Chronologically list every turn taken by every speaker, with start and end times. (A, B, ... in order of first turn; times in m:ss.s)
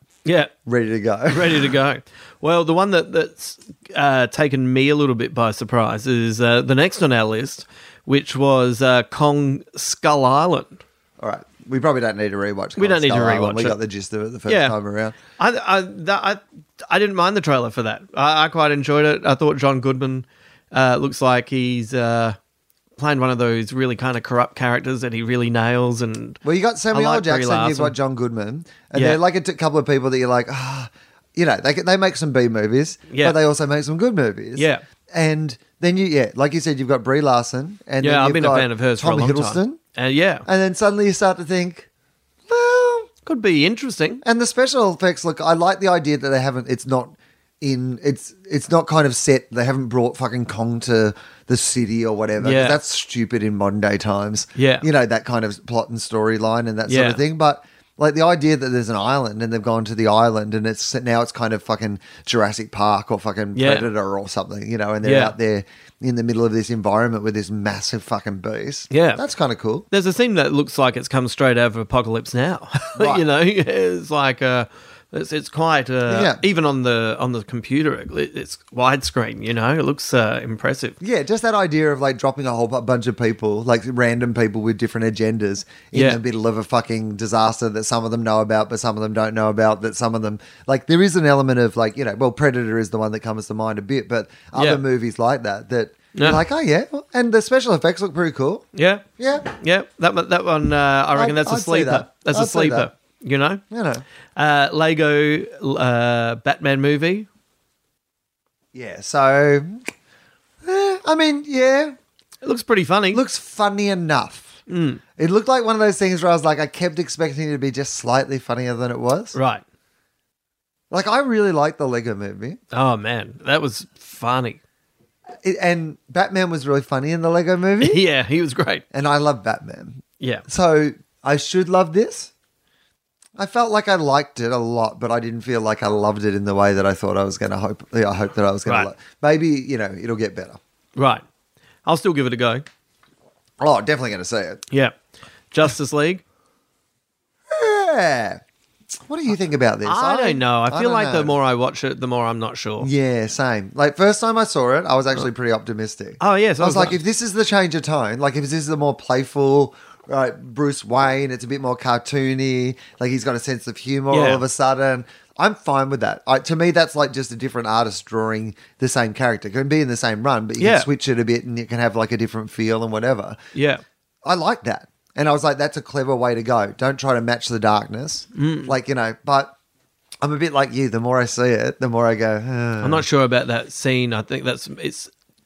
0:00.2-0:00.5 A
0:00.6-0:01.8 B
0:01.3-0:10.8 A
0:11.2-0:15.2 B
0:12.8-0:13.8 A
0:14.5-0:14.8 A
0:15.4-0:22.4 A
0:23.0-0:26.4 A
0:26.4-0:39.8 B
0:26.9-0:28.0 A
0:28.9-0:29.2 A
0:33.1-0:33.4 A
0:34.6-0:34.8 A
0:38.0-0:40.5 A
0:40.5-0:41.9 B
0:42.5-0:43.1 B
0:43.3-0:44.2 A
0:44.2-1:09.9 B
0:52.4-0:52.8 A
0:54.6-0:54.9 A
0:56.9-0:57.2 A
1:03.6-1:03.9 A
1:05.0-1:05.3 A
1:08.9-1:09.2 A
1:09.9-1:21.0 A
1:13.0-1:13.2 B
1:16.1-1:16.4 B
1:21.0-1:38.7 B
1:25.9-1:26.2 A
1:34.6-1:34.8 A
1:36.2-1:36.4 A
1:38.7-1:43.6 A
1:39.2-1:39.5 B
1:41.2-1:42.9 B
1:43.7-1:44.0 B
1:44.4-1:47.3 A
1:48.7-1:49.9 B
1:50.6-1:52.0 B
1:52.4-1:53.2 A
1:53.1-1:54.6 B
1:54.7-1:55.0 A
1:55.2-1:59.4 B
1:59.3-1:59.6 A
2:00.9-2:02.6 B
2:02.7-2:04.6 A
2:05.4-2:08.0 B
2:07.8-2:08.8 A
2:08.9-2:12.3 B
2:10.2-2:10.4 A
2:13.4-2:20.6 B
2:21.0-2:21.2 A
2:21.8-2:22.6 A
2:23.6-2:24.6 B
2:24.7-2:25.0 A
2:25.5-2:26.2 A
2:27.5-2:31.4 B
2:29.8-2:32.9 A
2:32.8-2:53.4 B
2:36.2-2:37.0 A
2:44.1-2:44.4 A
2:50.6-2:50.9 A
2:53.5-2:53.8 A
2:54.2-2:59.5 B
2:58.4-2:58.8 A
3:00.2-3:03.1 B
3:02.8-3:05.1 A